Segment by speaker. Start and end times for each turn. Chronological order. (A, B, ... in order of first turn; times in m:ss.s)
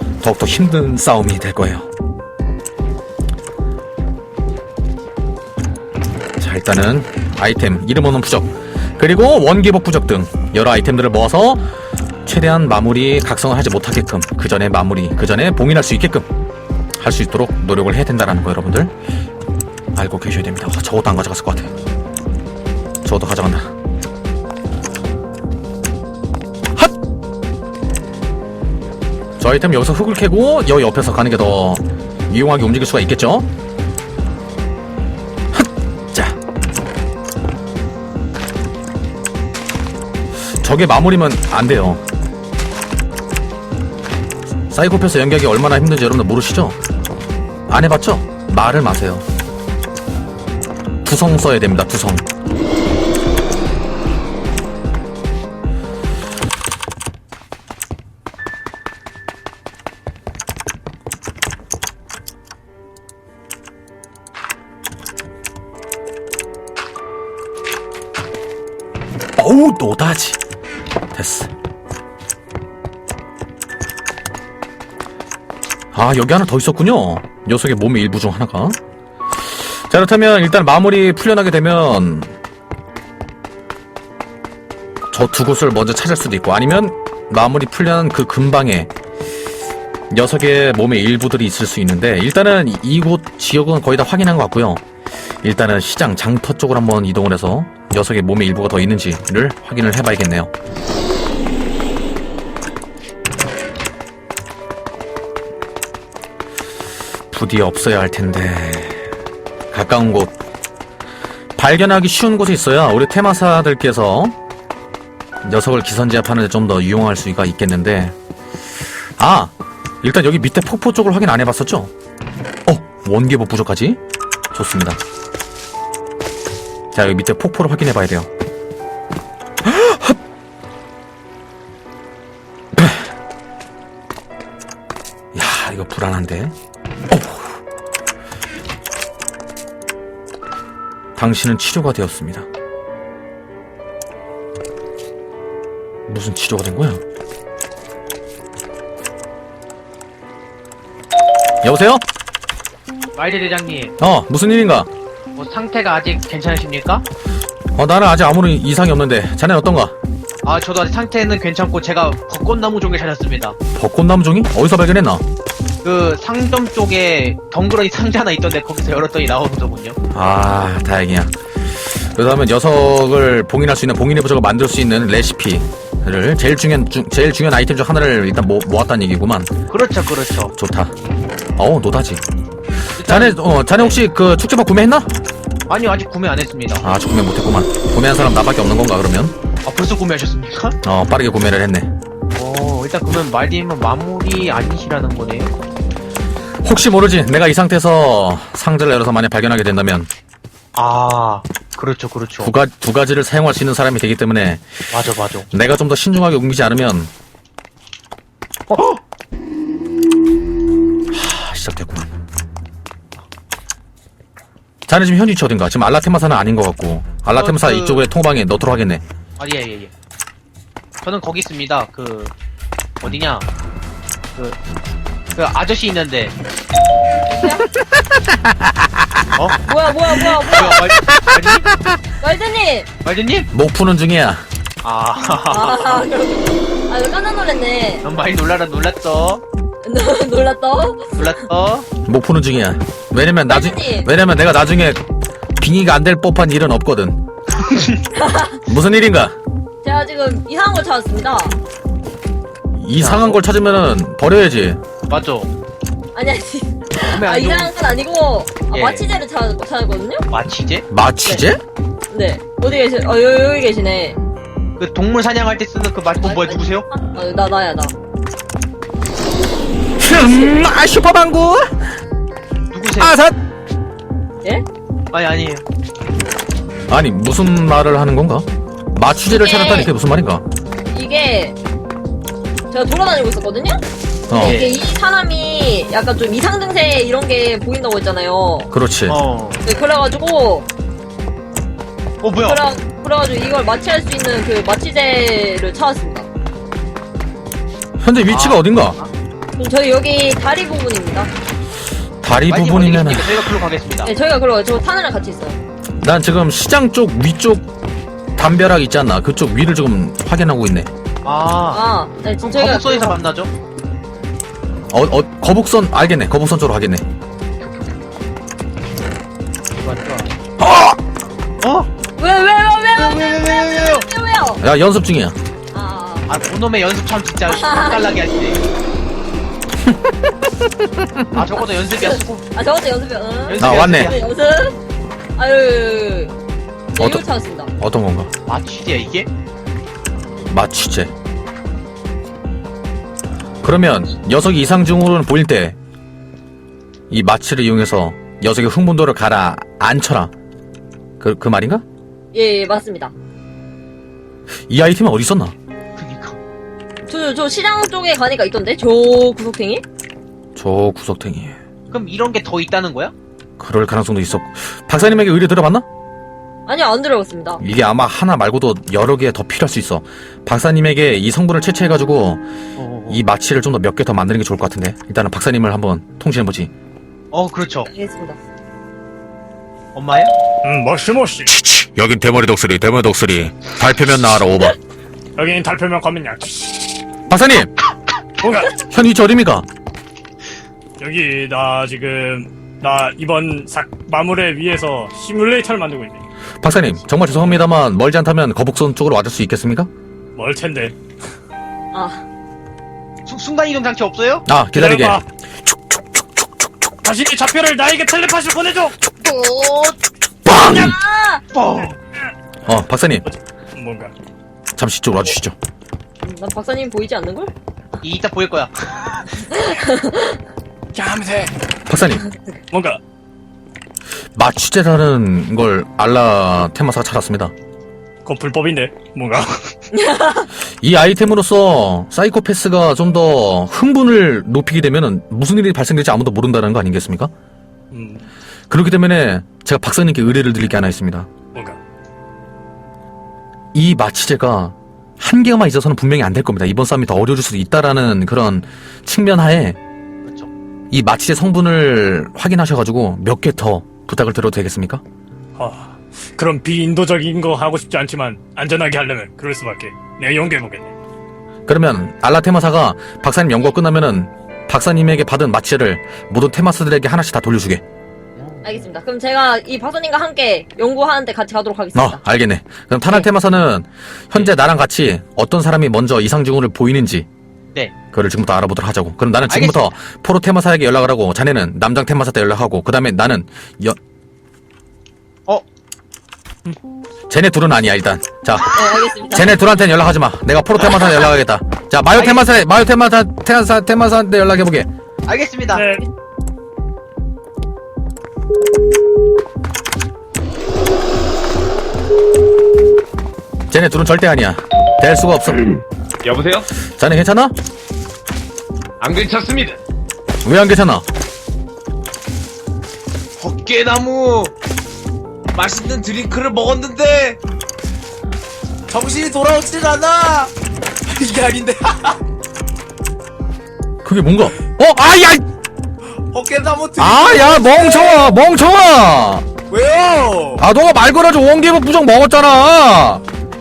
0:00.2-0:01.9 A
0:06.4-0:11.6 A
0:12.3-0:16.3 A
0:17.0-0:18.9 A
0:20.0-0:21.7 A
0:23.0-0:23.7 A
0:29.4-0:33.5 A
0:35.5-0:36.4 A
0:40.6-0:42.0 A
0:44.7-0:46.8 A
0:47.7-0:49.2 A
0:51.0-0:52.2 A
1:09.4-1:10.4 A
1:11.1-1:11.5 A
1:15.9-1:18.8 A
1:19.7-1:22.4 A
1:25.1-1:28.9 A
1:30.1-1:34.8 A
1:35.4-1:40.5 A
1:47.3-1:49.1 A
1:49.7-1:50.4 A
1:51.6-1:54.4 A
1:55.4-1:58.2 A
1:59.2-2:01.9 A
2:02.7-2:04.0 A
2:04.5-2:05.0 A
2:06.9-2:08.3 A
2:09.6-2:10.2 A
2:12.8-2:13.0 A
2:15.4-2:16.5 A
2:17.1-2:17.6 A
2:21.2-2:22.5 A
2:26.1-2:27.0 A
2:31.6-2:32.0 A
2:33.2-2:34.0 B
2:34.0-2:34.9 A
2:35.4-2:37.0 B
2:37.8-2:39.9 A
2:40.4-2:43.6 B
2:43.8-2:45.2 A
2:45.8-2:50.0 B
2:50.1-2:51.3 A
2:51.9-2:59.5 A
2:59.7-3:00.5 B
3:00.6-3:00.9 A
3:01.6-3:02.2 A
3:03.0-3:04.0 B
3:03.1-3:05.1 A
3:05.7-3:06.8 B
3:06.8-3:09.3 A
3:09.6-3:10.8 B
3:10.8-3:11.9 A
3:12.4-3:15.5 B
3:16.6-3:20.1 A
3:20.8-3:22.5 B
3:22.4-3:24.8 A
3:24.9-3:25.5 B
3:25.5-3:27.1 A
3:28.7-3:29.0 B
3:31.1-3:32.1 A
3:34.9-3:39.0 A
3:37.3-3:38.0 B
3:39.4-3:39.9 B
3:41.0-3:42.3 B
3:43.0-3:43.5 B
3:45.4-3:46.4 B
3:47.3-3:47.7 C
3:49.4-3:49.6 B
3:49.6-3:50.8 C
3:50.2-3:51.8 B
3:52.2-3:52.9 C
3:53.0-3:53.5 B
3:53.5-3:54.4 A
3:54.8-3:56.1 B
3:55.5-3:58.0 C
3:58.0-3:59.4 B
3:59.8-4:01.3 C
4:01.1-4:01.9 B
4:02.0-4:05.0 A
4:03.5-4:04.1 C
4:05.6-4:07.2 A
4:07.5-4:08.0 B
4:08.2-4:08.6 C
4:08.6-4:09.4 A
4:09.8-4:11.6 C
4:12.7-4:14.8 A
4:13.0-4:13.4 B
4:15.1-4:15.5 B
4:16.2-4:20.2 C
4:17.1-4:17.8 B
4:18.7-4:19.0 B
4:20.3-4:20.8 B
4:20.9-4:21.6 A
4:22.1-4:24.2 C
4:24.8-4:26.9 B
4:26.2-4:27.9 C
4:30.0-4:31.9 A
4:32.7-4:33.2 B
4:33.0-4:33.4 A
4:35.1-4:35.6 B
4:36.9-4:40.4 A
4:39.3-4:39.9 C
4:40.9-4:41.6 C
4:42.7-4:43.8 C
4:44.3-4:44.6 A
4:44.4-4:44.8 B
4:44.4-4:48.7 C
4:48.7-4:49.2 A
4:49.1-4:49.6 B
4:49.6-4:50.7 C
4:52.2-4:52.6 B
4:52.4-4:56.3 C
4:58.0-4:59.0 A
4:58.3-4:59.1 B
4:59.6-5:01.3 C
5:02.2-5:03.5 A
5:02.5-5:04.1 B
5:04.0-5:05.6 C
5:06.0-5:07.7 A
5:08.4-5:10.9 A
5:11.2-5:11.8 B
5:11.7-5:13.2 C
5:12.4-5:13.5 B
5:14.9-5:17.0 A
5:17.6-5:18.0 B
5:19.8-5:20.3 B
5:21.6-5:21.9 B
5:22.2-5:24.6 C
5:23.0-5:24.1 B
5:24.6-5:25.4 A
5:25.7-5:26.3 C
5:26.3-5:28.6 B
5:27.5-5:28.2 C
5:29.9-5:30.1 A
5:30.8-5:31.3 A
5:31.3-5:32.5 B
5:32.0-5:34.8 C
5:33.5-5:34.2 B
5:33.6-5:34.1 A
5:35.4-5:36.3 C
5:37.0-5:37.7 C
5:37.0-5:37.2 A
5:37.8-5:38.3 A
5:38.5-5:39.3 B
5:40.5-5:41.1 A
5:43.6-5:45.8 A
5:47.1-5:50.3 A
5:51.2-5:51.8 A
5:52.3-5:53.1 C
5:54.7-5:55.5 A
5:56.0-5:56.4 B
5:57.1-5:59.8 C
6:00.6-6:01.6 A
6:01.9-6:03.1 B
6:03.6-6:05.8 A
6:06.7-6:07.6 C
6:07.6-6:12.4 A
6:12.8-6:13.2 B
6:13.1-6:16.7 A
6:17.3-6:17.9 B
6:17.9-6:18.4 C
6:19.9-6:20.3 B
6:20.6-6:21.5 D
6:21.5-6:24.8 A
6:25.4-6:26.8 D
6:27.3-6:27.7 A
6:28.4-6:28.8 D
6:28.8-6:29.7 A
6:31.0-6:36.2 D
6:36.6-6:39.9 A
6:40.4-6:41.0 D
6:41.9-6:42.2 C
6:43.3-6:44.4 B
6:44.5-6:45.2 A
6:44.7-6:45.2 D
6:47.0-6:49.0 D
6:49.2-6:51.4 C
6:50.5-6:50.9 A
6:51.5-6:52.0 B
6:52.6-6:53.3 A
6:53.3-6:54.1 D
6:54.8-6:55.6 A
6:56.2-6:57.5 C
6:58.0-6:59.3 B
6:59.5-7:00.4 C
7:00.9-7:01.5 D
7:01.9-7:02.3 A
7:02.7-7:03.0 D
7:04.4-7:07.5 A
7:08.2-7:09.7 D
7:09.9-7:10.5 C
7:10.8-7:17.3 A
7:17.9-7:18.3 D
7:18.7-7:21.3 A
7:21.5-7:21.8 D
7:23.7-7:29.8 A
7:30.2-7:30.5 B
7:30.9-7:35.0 A
7:35.6-7:40.9 D
7:41.7-7:47.8 A
7:48.4-7:48.8 B
7:48.6-7:52.2 C
7:52.0-7:57.3 A
7:58.1-8:04.0 A
7:59.5-7:59.8 B
8:07.3-8:14.9 A
8:08.7-8:09.6 C
8:12.1-8:12.5 B
8:15.3-8:15.8 B
8:15.7-8:16.0 D
8:23.7-8:25.8 A
8:26.2-8:26.7 E
8:26.9-8:27.6 A
8:29.0-8:29.8 E
8:30.4-8:31.0 A
8:33.4-8:34.5 E
8:35.5-8:37.4 E
8:38.9-8:40.5 E
8:41.1-8:42.2 E
8:44.0-8:45.4 A
8:46.3-8:48.3 E
8:47.0-8:49.5 A
8:49.7-8:50.6 E
8:50.6-8:53.2 A